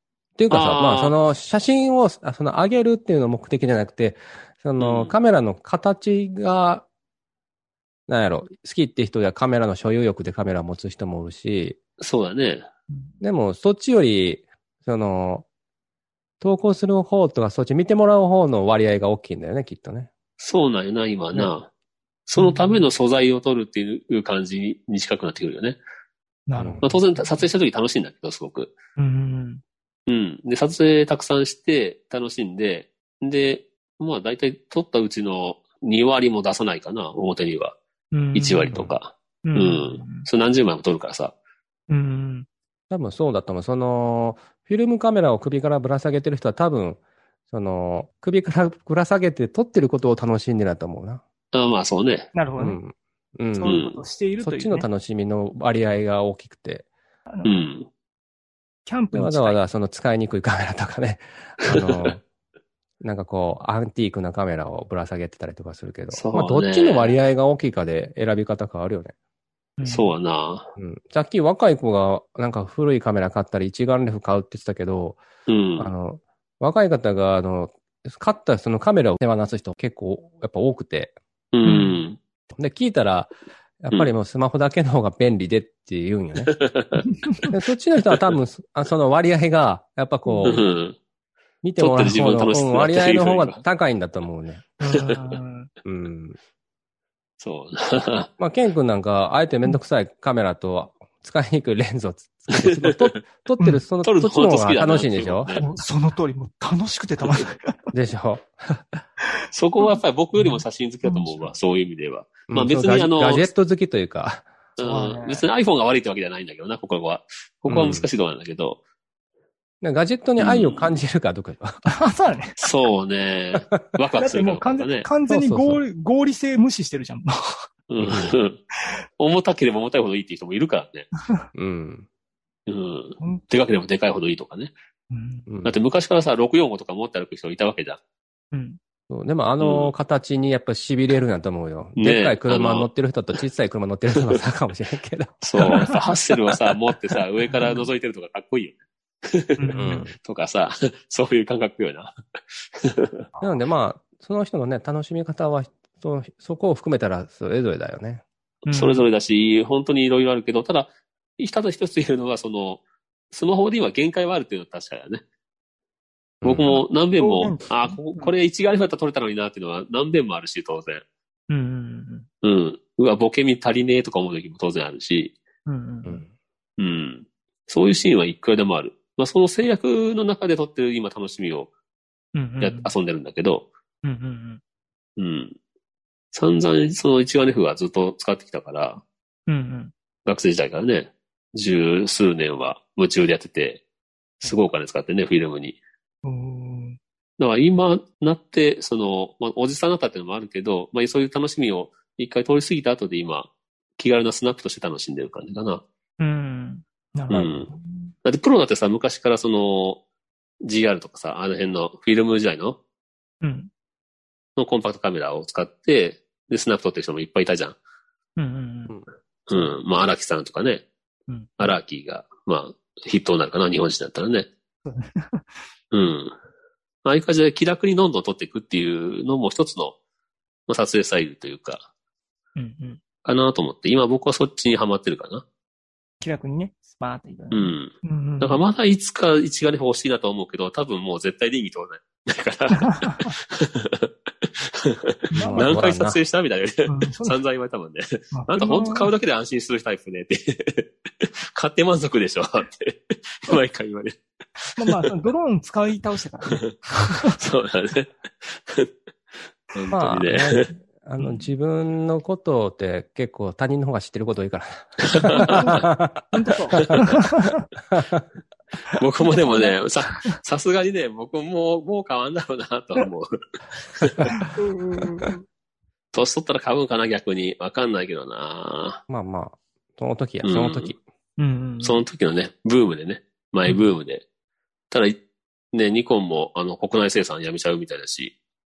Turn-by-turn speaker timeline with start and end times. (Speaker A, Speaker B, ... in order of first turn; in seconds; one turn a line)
Speaker A: 0.4-6.9
Speaker B: 0.5-1.1
Speaker B: 4.8-5.1
Speaker A: 8.1-11.8
Speaker B: 12.0-12.7
Speaker A: 13.2-15.4
Speaker A: 16.4-20.1
Speaker B: 20.4-21.7
Speaker B: 22.3-25.8
Speaker C: 22.4-22.9
Speaker C: 26.5-27.5
Speaker A: 26.6-26.8
Speaker B: 26.8-28.8
Speaker C: 29.0-29.6
Speaker B: 30.1-37.8
Speaker C: 38.1-38.9
Speaker B: 38.4-41.3
Speaker C: 39.5-40.3
Speaker C: 41.9-42.5
Speaker A: 42.9-51.2
Speaker B: 51.5-52.3
Speaker C: 52.3-52.8
Speaker A: 52.6-53.8
Speaker C: 53.5-54.9
Speaker B: 53.6-54.0
Speaker A: 54.4-56.9
Speaker C: 57.3-57.6
Speaker B: 57.5-57.9
Speaker C: 58.9-59.6
Speaker A: 59.1-62.2
Speaker B: 61.7-62.2
Speaker A: 63.0-69.1
Speaker B: 66.1-67.2
Speaker C: 69.8-70.1
Speaker B: 69.8-70.7
Speaker A: 70.8-75.2
Speaker B: 75.5-75.9
Speaker A: 75.8-81.1
Speaker B: 81.5-82.2
Speaker C: 81.7-82.0
Speaker A: 82.5-83.3
Speaker A: 83.8-86.5
Speaker B: 86.4-87.0
Speaker C: 87.1-87.5
Speaker A: 87.5-90.7
Speaker C: 90.3-90.5
Speaker B: 90.4-91.0
Speaker A: 91.6-94.7
Speaker B: 91.8-93.6
Speaker C: 94.8-95.7
Speaker A: 95.8-96.4
Speaker B: 97.4-98.3
Speaker A: 98.4-105.7
Speaker B: 102.5-103.2
Speaker B: 104.0-105.7
Speaker C: 105.6-107.8
Speaker A: 107.9-108.9
Speaker B: 109.5-113.5
Speaker C: 109.8-111.5
Speaker A: 112.5-114.5
Speaker B: 114.8-118.8
Speaker C: 114.8-115.5
Speaker A: 117.7-118.1
Speaker A: 119.8-122.0
Speaker B: 120.4-121.0
Speaker C: 121.9-122.6
Speaker B: 122.6-125.1
Speaker C: 124.2-127.7
Speaker A: 125.3-125.8
Speaker B: 127.9-128.6
Speaker A: 128.0-128.3
Speaker B: 129.2-131.1
Speaker A: 131.5-132.1
Speaker B: 132.7-134.7
Speaker C: 135.1-135.5
Speaker A: 135.5-135.7
Speaker B: 135.7-138.0
Speaker C: 138.5-138.8
Speaker A: 139.1-146.0
Speaker B: 139.6-139.9
Speaker B: 142.0-142.9
Speaker B: 145.4-152.1
Speaker C: 145.6-146.0
Speaker C: 147.6-147.9
Speaker C: 149.6-150.1
Speaker A: 149.8-150.2
Speaker B: 152.7-153.2
Speaker C: 153.3-153.6
Speaker A: 153.4-158.2
Speaker C: 158.7-159.1
Speaker B: 158.7-165.2
Speaker A: 166.4-166.7
Speaker B: 166.4-171.0
Speaker C: 166.7-168.3
Speaker C: 171.5-172.3
Speaker B: 172.4-175.4
Speaker C: 175.7-176.2
Speaker A: 176.1-176.3
Speaker B: 176.8-181.7
Speaker C: 182.3-182.9
Speaker B: 182.6-183.7
Speaker C: 184.0-184.6
Speaker B: 185.2-185.6
Speaker B: 186.3-189.0
Speaker C: 189.5-189.9
Speaker B: 190.3-193.8
Speaker B: 194.4-195.8
Speaker C: 196.2-197.0
Speaker B: 197.4-205.8
Speaker C: 206.2-208.1
Speaker B: 207.3-207.7
Speaker B: 208.2-210.0
Speaker B: 210.6-212.8
Speaker C: 213.4-213.7
Speaker B: 214.6-217.8
Speaker C: 218.4-219.0
Speaker B: 219.5-220.8
Speaker C: 221.3-221.8
Speaker B: 221.6-224.5
Speaker C: 224.8-225.7
Speaker B: 225.9-226.3
Speaker B: 227.1-230.0
Speaker B: 230.7-231.9
Speaker C: 232.6-233.0
Speaker B: 233.2-235.4
Speaker C: 236.2-238.6
Speaker B: 237.5-244.1
Speaker C: 242.8-243.3
Speaker B: 244.6-254.2
Speaker C: 245.3-245.8
Speaker A: 245.4-246.2
Speaker C: 246.9-247.4
Speaker C: 248.3-249.1
Speaker C: 254.8-257.4
Speaker B: 257.3-258.9
Speaker B: 259.7-260.7
Speaker A: 259.9-266.2
Speaker C: 261.2-261.5
Speaker B: 265.1-265.7
Speaker C: 265.3-267.6
Speaker B: 266.8-267.1
Speaker A: 267.9-268.2
Speaker B: 269.0-274.3
Speaker C: 269.2-270.4
Speaker C: 274.4-275.5
Speaker B: 276.1-279.0
Speaker A: 279.1-281.0
Speaker B: 280.4-280.9
Speaker C: 281.4-282.0
Speaker B: 281.8-284.2
Speaker C: 283.7-283.9
Speaker B: 284.9-285.2
Speaker B: 285.7-288.3